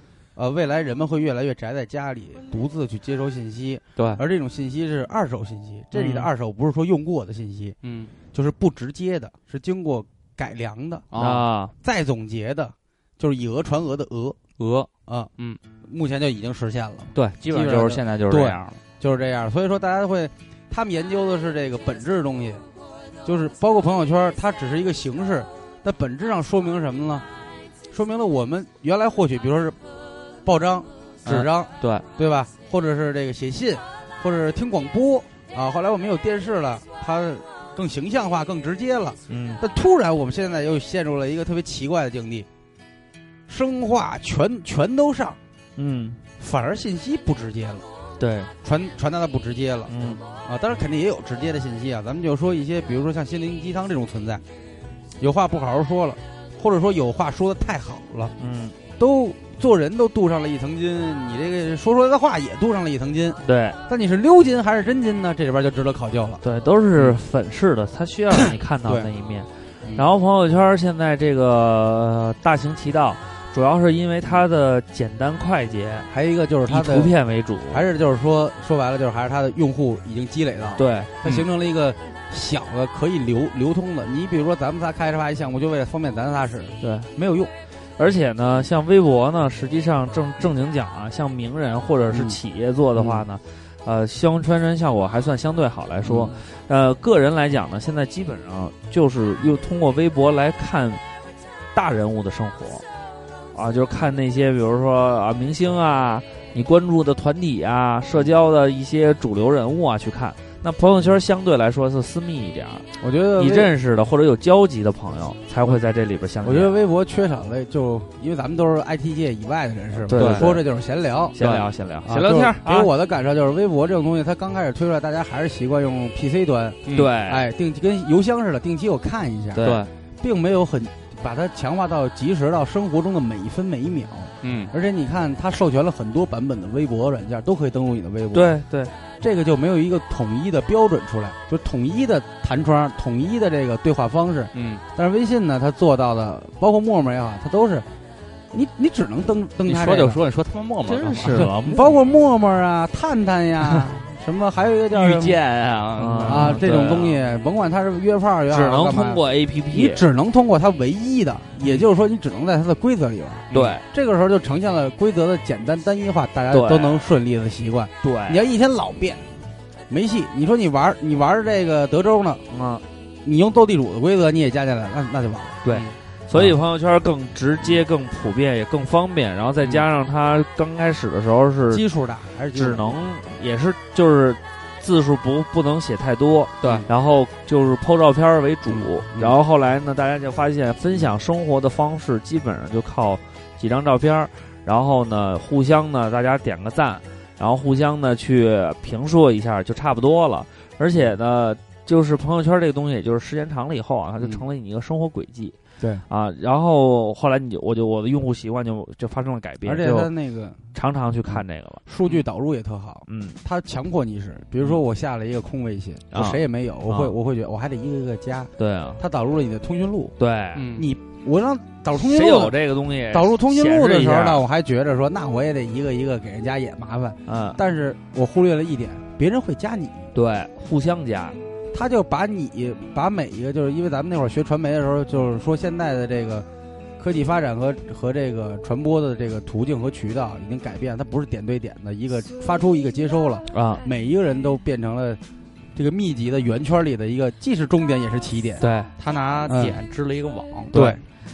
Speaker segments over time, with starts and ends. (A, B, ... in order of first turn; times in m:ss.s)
0:00.4-0:07.8 A
0:05.9-0:06.3 B
0:07.8-0:08.1 C
0:08.3-0:11.1 A
0:11.1-0:11.5 C
0:11.2-0:11.7 B
0:11.8-0:14.4 A
0:14.6-0:15.6 C
0:15.8-0:22.6 A
0:17.2-0:18.8 C
0:23.2-0:27.3 A
0:27.9-0:29.8 A
0:30.4-0:42.5 A
0:31.3-0:32.0 C
0:39.3-0:39.6 B
0:43.5-0:45.4 A
0:45.8-0:46.2 B
0:46.4-0:47.9 A
0:48.2-0:48.5 B
0:48.6-0:54.4 A
0:49.9-0:50.2 B
0:55.2-0:58.3 A
0:58.4-0:58.8 B
0:59.0-1:06.4 A
1:03.4-1:03.8 B
1:06.4-1:16.1 B
1:16.1-1:17.1 A
1:16.7-1:17.9 B
1:17.7-1:27.5 A
1:20.8-1:21.1 B
1:26.8-1:27.1 B
1:28.0-1:41.0 B
1:32.1-1:32.4 A
1:36.1-1:36.3 A
1:41.7-1:42.8 B
1:43.5-1:52.9 B
1:53.0-1:53.7 A
1:53.4-1:56.7 B
1:56.4-2:01.4 A
2:00.1-2:00.6 B
2:00.2-2:00.6 C
2:01.4-2:02.9 B
2:01.4-2:01.6 C
2:02.0-2:18.6 A
2:06.9-2:07.1 C
2:06.9-2:07.4 B
2:09.6-2:09.8 B
2:09.6-2:09.9 C
2:14.4-2:14.7 C
2:18.3-2:18.9 B
2:19.2-2:27.9 A
2:24.5-2:24.8 C
2:28.5-2:30.2 A
2:29.7-2:31.5 C
2:30.9-2:31.9 B
2:31.3-2:35.4 A
2:34.9-2:36.6 C
2:36.0-2:37.2 B
2:36.2-2:49.3 A
2:38.5-2:40.0 B
2:43.5-2:43.8 C
2:43.5-2:43.8 B
2:46.5-2:47.1 B
2:48.0-2:48.4 B
2:49.9-2:52.4 A
2:52.5-2:52.8 B
2:53.2-2:55.6 A
2:55.6-3:01.8 B
2:55.7-2:56.0 C
3:01.7-3:03.0 A
3:02.5-3:25.6 B
3:26.1-3:30.1 B
3:29.6-3:30.6 A
3:30.7-3:31.8 B
3:31.3-3:40.2 A
3:33.1-3:33.4 B
3:36.1-3:37.1 B
3:38.6-3:39.0 B
3:40.2-3:40.7 B
3:40.6-3:40.9 C
3:40.7-3:42.6 A
3:42.0-3:44.4 B
3:43.1-3:50.1 A
3:47.3-3:47.6 B
3:50.2-3:51.4 B
3:51.7-3:56.5 A
3:57.0-4:05.2 A
4:03.5-4:03.8 B
4:05.8-4:08.6 A
4:08.6-4:08.9 B
4:08.9-4:10.8 C
4:09.5-4:09.8 A
4:10.7-4:11.0 A